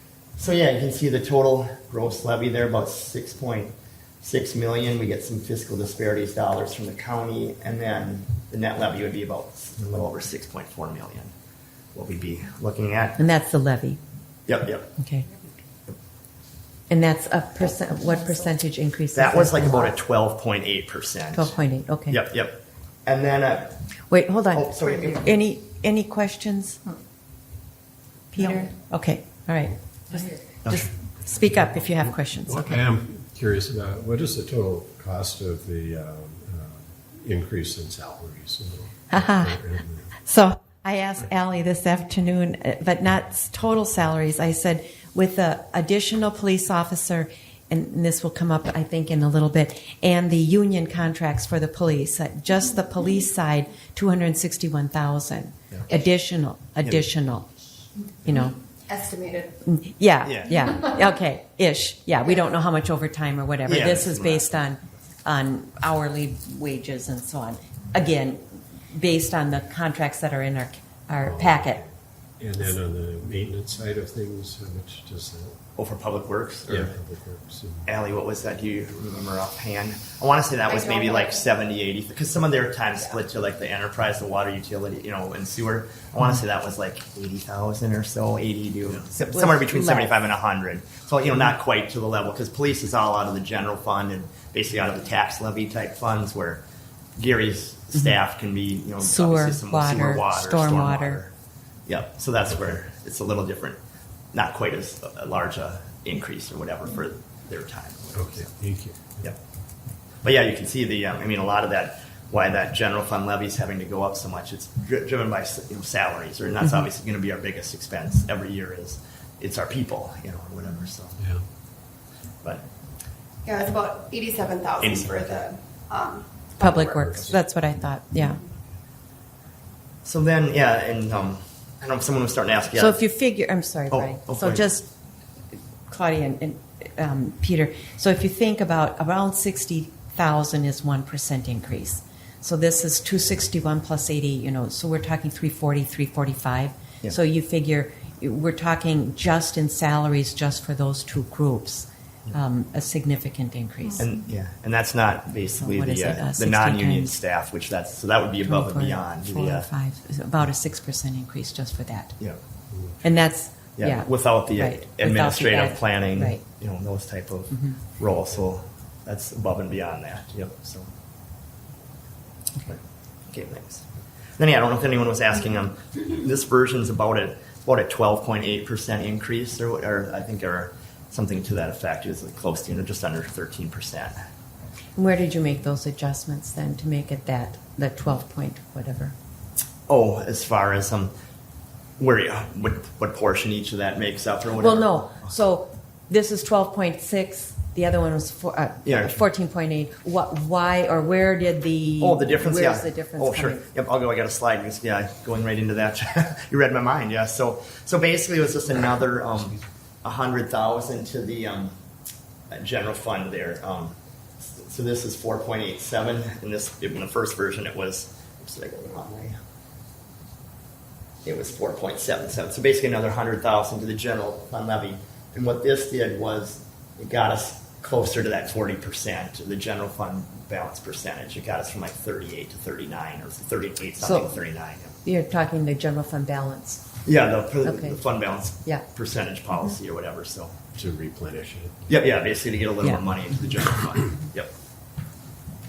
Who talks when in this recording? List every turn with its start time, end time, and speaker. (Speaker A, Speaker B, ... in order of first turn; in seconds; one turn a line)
Speaker A: 0.4-11.3
Speaker A: 11.9-13.2
Speaker B: 13.2-14.0
Speaker A: 14.5-14.9
Speaker B: 15.0-15.3
Speaker B: 16.9-19.9
Speaker A: 19.1-21.5
Speaker B: 21.3-22.2
Speaker A: 22.1-23.8
Speaker B: 24.1-26.8
Speaker A: 24.5-25.3
Speaker B: 28.3-32.8
Speaker C: 28.4-28.7
Speaker A: 30.6-30.9
Speaker D: 32.1-40.1
Speaker B: 39.1-39.6
Speaker B: 40.2-57.5
Speaker B: 58.2-58.6
Speaker C: 58.9-59.6
Speaker B: 59.6-68.4
Speaker A: 60.2-60.6
Speaker A: 63.7-64.6
Speaker B: 68.9-71.8
Speaker D: 71.2-75.6
Speaker A: 75.8-77.0
Speaker D: 76.7-77.9
Speaker A: 77.9-96.6
Speaker C: 80.7-81.4
Speaker B: 89.3-90.2
Speaker A: 97.2-101.3
Speaker B: 99.0-101.2
Speaker A: 101.9-103.8
Speaker A: 104.3-108.5
Speaker D: 108.2-109.2
Speaker A: 110.2-121.2
Speaker C: 123.5-127.1
Speaker B: 126.6-128.4
Speaker A: 130.1-133.0
Speaker B: 132.8-134.9
Speaker A: 133.9-134.7
Speaker B: 135.9-154.1
Speaker A: 154.0-159.7
Speaker B: 155.6-157.1
Speaker B: 158.4-162.2
Speaker D: 162.7-163.0
Speaker B: 163.0-166.4
Speaker A: 163.8-170.9
Speaker A: 173.3-173.9
Speaker A: 174.4-184.2
Speaker B: 185.0-189.2
Speaker A: 189.9-191.1
Speaker A: 192.0-195.3
Speaker B: 194.6-203.6
Speaker A: 198.8-199.2
Speaker A: 202.0-211.8
Speaker A: 212.5-219.4
Speaker A: 221.2-234.9
Speaker B: 234.0-234.4
Speaker B: 235.0-236.9
Speaker A: 237.1-240.6
Speaker B: 237.6-238.0
Speaker D: 240.8-241.8
Speaker A: 241.9-244.5